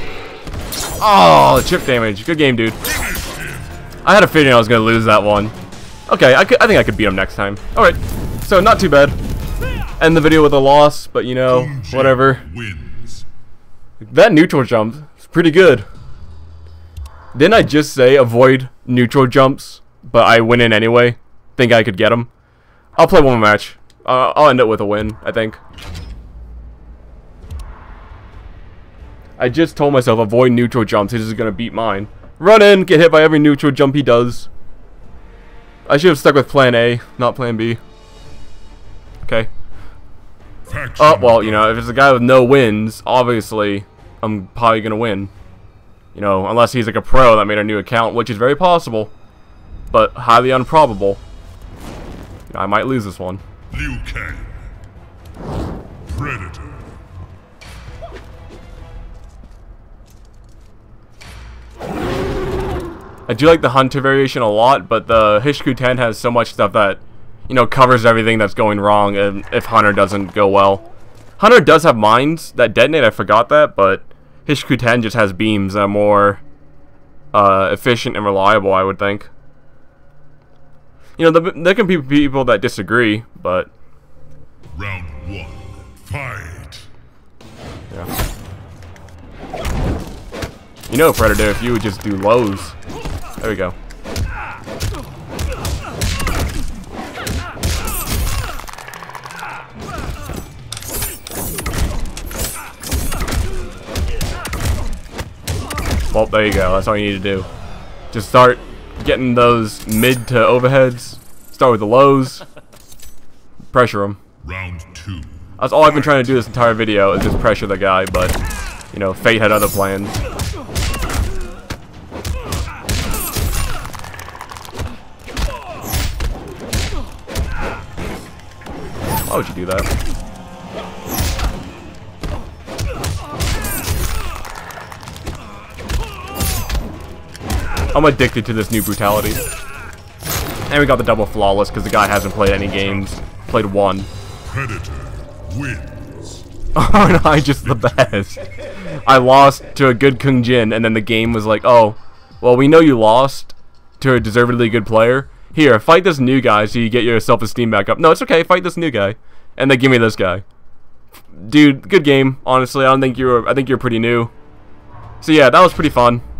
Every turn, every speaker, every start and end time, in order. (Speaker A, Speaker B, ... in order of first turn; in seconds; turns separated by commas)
Speaker A: 1.0-2.8, Speaker B: 2.9-3.7, Speaker A: 4.0-5.5, Speaker A: 6.1-9.2, Speaker A: 10.0-12.4, Speaker B: 11.5-13.2, Speaker A: 14.0-15.8, Speaker A: 17.3-22.3, Speaker A: 23.0-25.6, Speaker A: 29.4-34.5, Speaker A: 35.9-37.8, Speaker A: 39.2-39.5, Speaker B: 40.7-41.7, Speaker A: 41.0-45.3, Speaker A: 46.1-49.1, Speaker A: 49.9-51.2, Speaker A: 52.5-53.4, Speaker B: 53.7-54.5, Speaker B: 56.0-56.9, Speaker A: 63.3-70.8, Speaker A: 71.4-76.4, Speaker A: 77.3-79.3, Speaker A: 81.2-83.7, Speaker B: 84.7-86.9, Speaker A: 90.9-92.8, Speaker A: 93.4-93.8, Speaker A: 106.1-107.5, Speaker A: 108.1-112.4, Speaker A: 113.7-114.2, Speaker B: 114.4-116.2, Speaker A: 115.6-118.4, Speaker A: 118.9-120.2, Speaker A: 129.2-129.9, Speaker A: 137.9-139.4, Speaker A: 140.7-144.1, Speaker B: 144.4-146.4, Speaker A: 146.7-160.4, Speaker B: 147.6-148.2, Speaker A: 161.3-164.3, Speaker A: 165.2-166.2